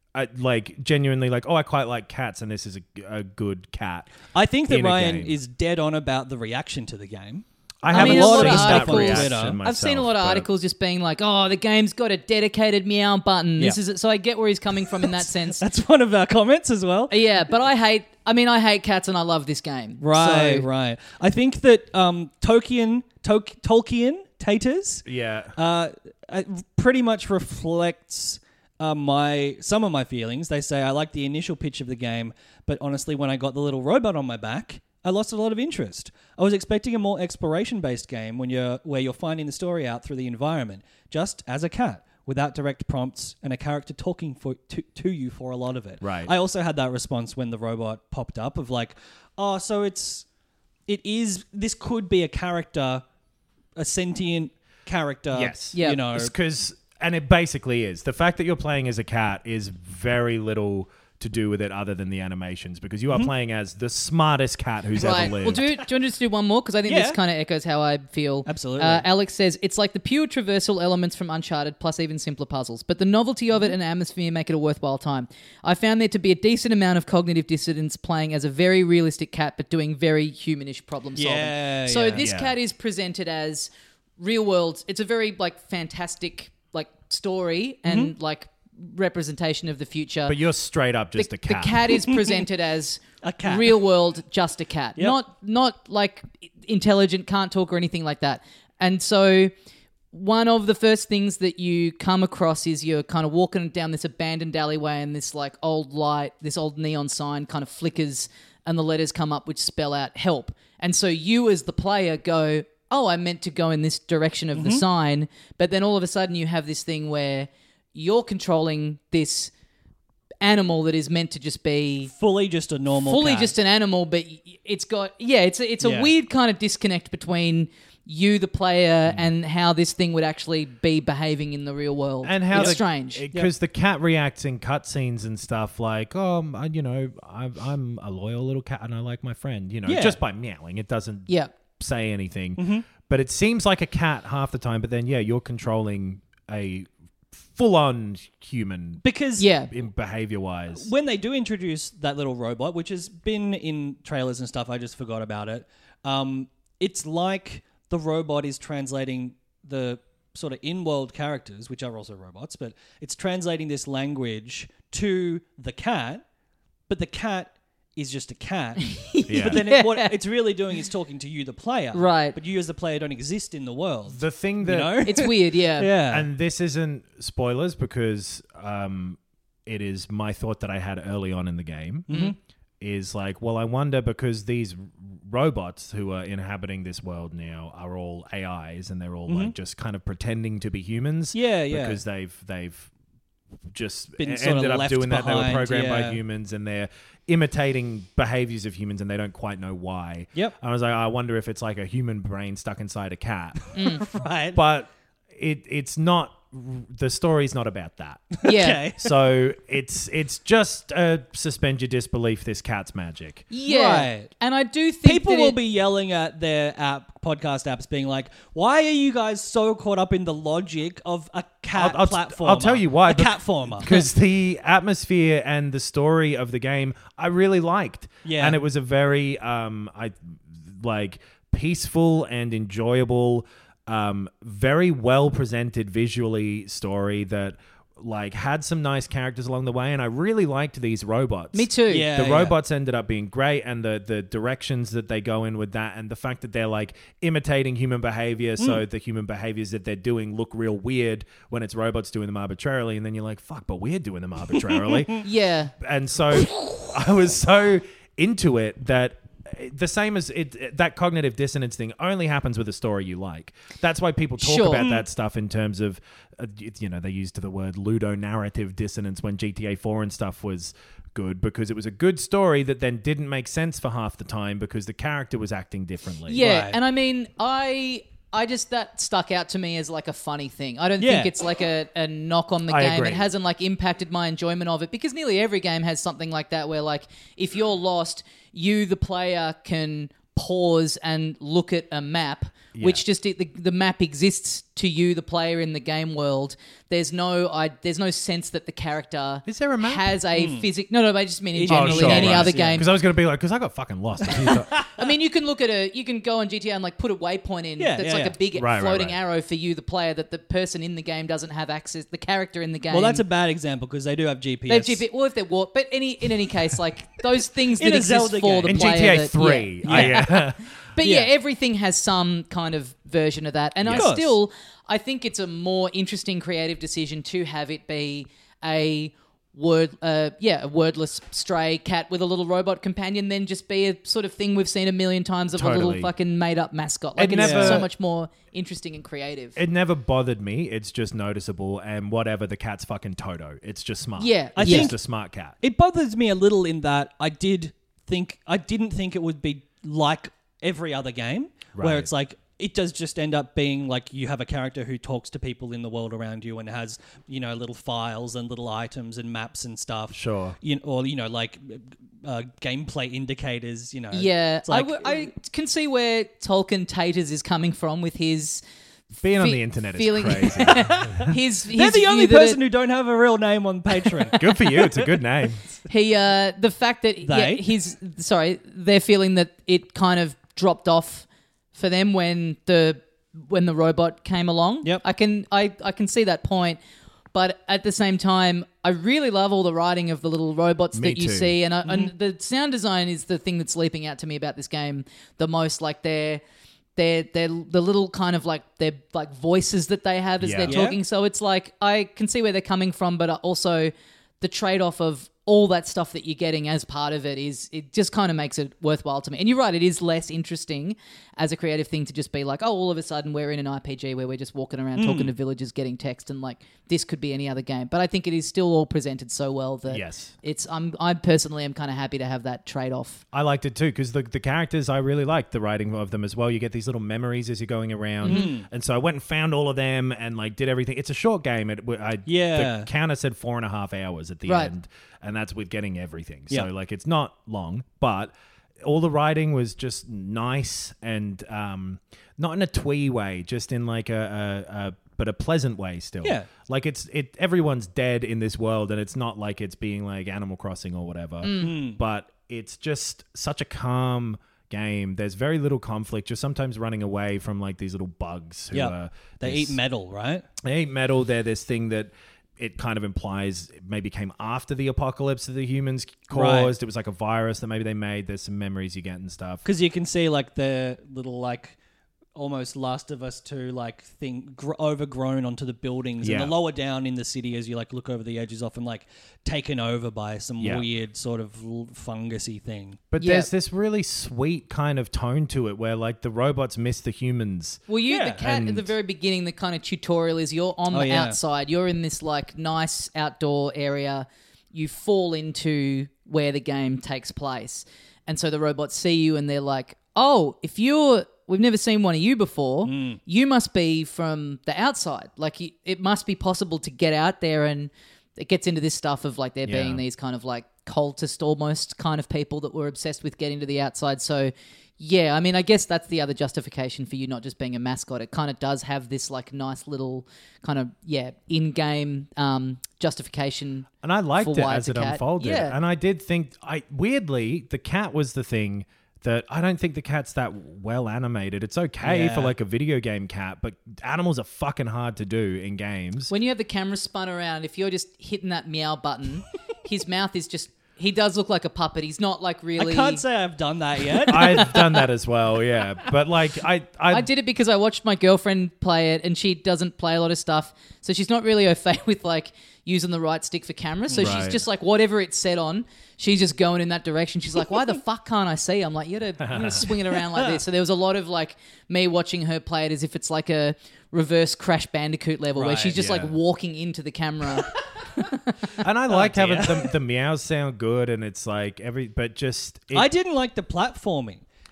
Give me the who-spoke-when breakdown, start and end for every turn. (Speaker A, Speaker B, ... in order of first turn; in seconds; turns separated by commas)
Speaker A: 0.1-5.4, Speaker B: 4.3-9.6, Speaker A: 7.8-10.5, Speaker C: 7.9-15.6, Speaker B: 14.9-17.2, Speaker C: 17.1-20.7, Speaker B: 20.0-50.2, Speaker A: 25.0-25.6, Speaker A: 46.0-46.3, Speaker B: 50.9-53.0, Speaker B: 53.8-56.3, Speaker A: 55.3-65.7, Speaker C: 55.7-56.0, Speaker C: 65.0-90.4, Speaker B: 65.3-65.7, Speaker B: 66.9-67.2, Speaker B: 68.5-69.0, Speaker B: 81.2-82.2, Speaker A: 82.2-82.5, Speaker B: 87.8-88.1, Speaker A: 90.3-91.9, Speaker C: 91.2-99.5, Speaker B: 92.1-92.4, Speaker B: 93.2-93.8, Speaker C: 100.1-119.5, Speaker B: 114.5-114.8, Speaker C: 120.4-122.1, Speaker B: 122.1-123.5, Speaker C: 123.0-133.2, Speaker A: 125.8-126.1, Speaker A: 132.2-149.0, Speaker B: 132.5-132.8, Speaker B: 139.8-140.2, Speaker B: 142.6-142.8, Speaker B: 149.0-149.5, Speaker C: 149.4-149.7, Speaker A: 149.7-150.9, Speaker B: 150.7-166.2, Speaker B: 166.9-176.3, Speaker C: 168.8-170.1, Speaker A: 169.3-169.6, Speaker C: 171.9-172.4, Speaker A: 174.1-175.1, Speaker C: 175.0-175.9, Speaker A: 176.1-182.1, Speaker B: 182.1-182.3, Speaker A: 182.8-192.9, Speaker B: 189.3-189.5, Speaker B: 191.3-192.0, Speaker A: 193.7-203.6, Speaker B: 194.2-196.2, Speaker B: 203.6-204.6, Speaker C: 203.7-204.0, Speaker A: 204.5-208.4, Speaker B: 208.4-209.1, Speaker C: 208.4-208.9, Speaker A: 209.0-213.5, Speaker C: 213.5-215.6, Speaker B: 213.7-214.3, Speaker B: 215.0-224.0, Speaker A: 221.7-255.3, Speaker B: 228.2-228.6, Speaker C: 241.5-242.1, Speaker B: 241.9-242.6, Speaker B: 254.7-255.2, Speaker C: 255.2-255.7, Speaker A: 255.8-276.4, Speaker C: 264.4-264.8, Speaker B: 264.8-265.1, Speaker C: 276.3-302.9, Speaker B: 276.4-276.8, Speaker B: 281.0-281.3, Speaker A: 282.7-283.3, Speaker A: 292.7-293.0, Speaker A: 299.4-300.1, Speaker B: 300.3-300.7, Speaker B: 301.5-302.9, Speaker A: 301.7-304.7, Speaker B: 304.2-305.0, Speaker C: 304.9-313.2, Speaker B: 307.8-308.4, Speaker A: 308.5-309.2, Speaker B: 312.9-315.0, Speaker C: 314.7-339.6, Speaker B: 317.8-319.3, Speaker A: 318.6-320.7, Speaker B: 319.8-320.3, Speaker B: 321.0-321.3, Speaker A: 323.8-324.1, Speaker B: 323.9-324.4, Speaker A: 335.5-336.1, Speaker A: 337.2-337.9, Speaker B: 337.3-337.9, Speaker A: 339.6-345.6, Speaker C: 344.2-344.9, Speaker B: 344.6-345.0, Speaker B: 345.6-365.3, Speaker A: 351.7-352.1, Speaker A: 360.1-360.6, Speaker C: 364.1-368.6, Speaker A: 369.2-371.3, Speaker C: 369.4-372.6, Speaker B: 370.6-375.2, Speaker A: 374.4-375.6, Speaker C: 375.9-386.8, Speaker B: 377.2-377.6, Speaker C: 387.3-396.4, Speaker A: 390.9-391.5, Speaker C: 396.9-423.2, Speaker A: 400.4-400.8, Speaker B: 400.7-401.0, Speaker B: 414.9-415.3, Speaker A: 419.9-420.3, Speaker A: 423.3-438.3, Speaker B: 428.2-428.6, Speaker C: 428.2-428.5, Speaker B: 432.2-432.9, Speaker C: 434.4-434.7, Speaker A: 438.8-459.8, Speaker B: 446.2-446.5, Speaker B: 451.5-452.0, Speaker B: 458.7-460.4, Speaker A: 460.6-469.6, Speaker B: 466.3-466.7, Speaker B: 469.6-471.8, Speaker B: 472.3-483.0, Speaker A: 476.2-476.5, Speaker A: 480.6-480.8, Speaker A: 483.1-487.9, Speaker C: 483.2-483.5, Speaker C: 487.9-525.8, Speaker B: 488.1-488.4, Speaker A: 488.4-488.9, Speaker B: 490.9-491.4, Speaker B: 502.8-503.2, Speaker A: 509.6-510.0, Speaker A: 524.0-536.3, Speaker B: 532.0-532.5, Speaker C: 536.3-543.2, Speaker B: 542.8-544.7, Speaker C: 544.3-544.8, Speaker A: 544.3-547.3, Speaker C: 547.1-568.5, Speaker B: 554.1-554.5, Speaker A: 554.2-554.6, Speaker A: 559.5-559.8, Speaker B: 560.1-560.6, Speaker B: 565.5-566.0, Speaker A: 566.0-566.3, Speaker A: 568.8-573.1, Speaker B: 569.1-569.9, Speaker B: 572.9-574.4